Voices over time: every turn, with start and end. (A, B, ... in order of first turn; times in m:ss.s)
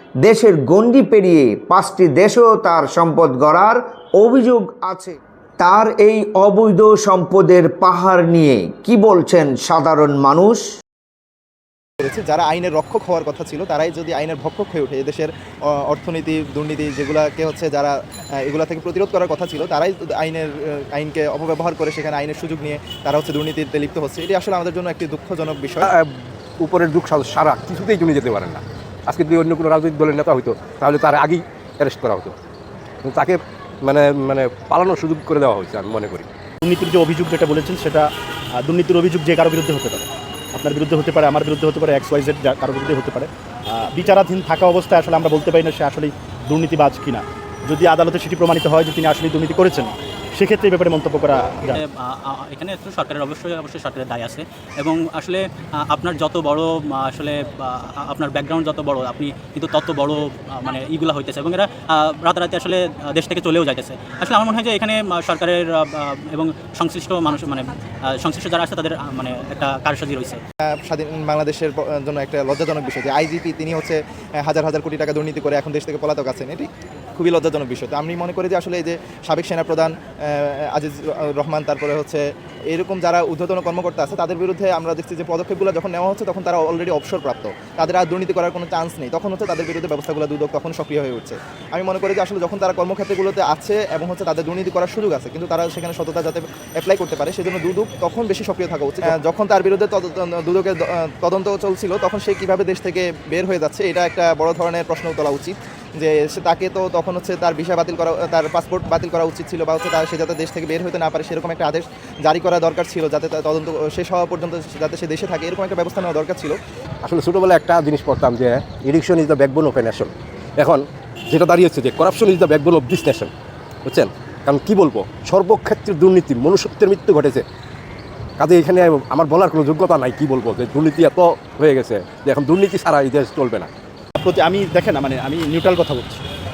0:00.2-0:10.6 A
0:12.0-0:25.9 B
0:25.8-0:32.4 C
0:33.0-0:36.3 C
0:36.6-0:38.1 D
0:38.6-0:51.8 D
0:51.7-1:10.4 E
1:10.6-1:56.6 B
1:57.0-2:03.3 C
2:03.8-2:07.5 C
2:08.4-2:13.7 C
2:14.2-2:16.2 D